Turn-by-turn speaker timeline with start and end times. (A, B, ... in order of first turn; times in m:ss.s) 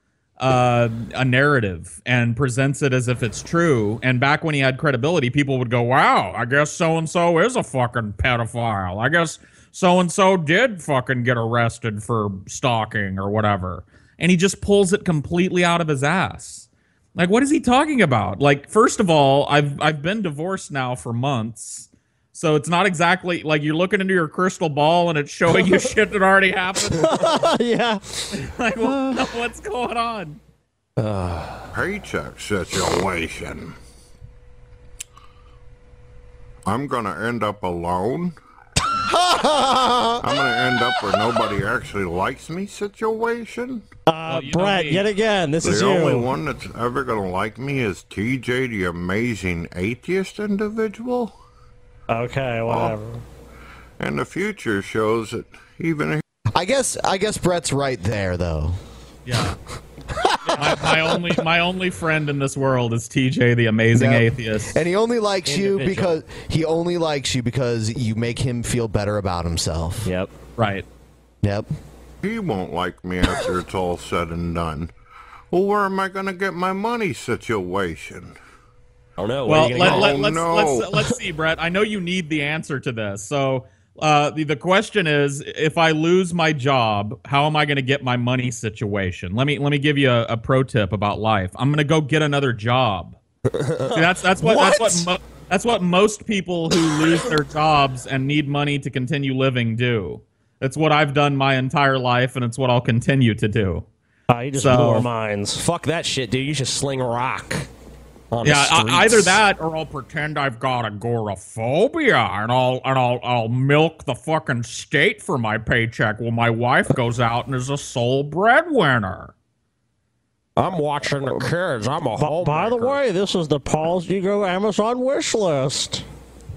0:00.4-0:27.4 A
0:27.0-0:28.0 B
0:28.3-0:30.4 A
0:31.0-0:31.6 C
0:31.7-0:33.8 D
0:36.7-0:38.4 D
0:39.0-0:40.2 E
0:40.2-0:43.8 D
0:44.1-0:46.3 B
0:44.3-0:45.0 A
0:45.6-0:51.4 D
0:52.1-0:53.2 B
0:52.7-0:53.0 D
0:54.0-0:56.2 D
0:56.5-0:58.8 E
0:59.3-0:59.6 A
1:00.2-1:01.0 E
1:00.5-1:04.8 A
1:03.9-1:10.1 E
1:05.5-1:06.2 C
1:10.0-1:10.3 C
1:10.6-1:10.8 A
1:11.4-1:11.7 E
1:12.2-1:14.9 D
1:15.5-1:18.4 D
1:19.2-1:20.2 C
1:19.5-1:33.2 A
1:19.7-1:21.0 D
1:33.5-1:35.1 C
1:33.9-1:43.9 A
1:44.3-1:45.6 B
1:44.6-1:45.1 A
1:45.6-1:47.7 C
1:48.3-1:49.4 C
1:48.4-1:59.3 A
2:00.6-2:03.0 C
2:02.2-2:06.0 B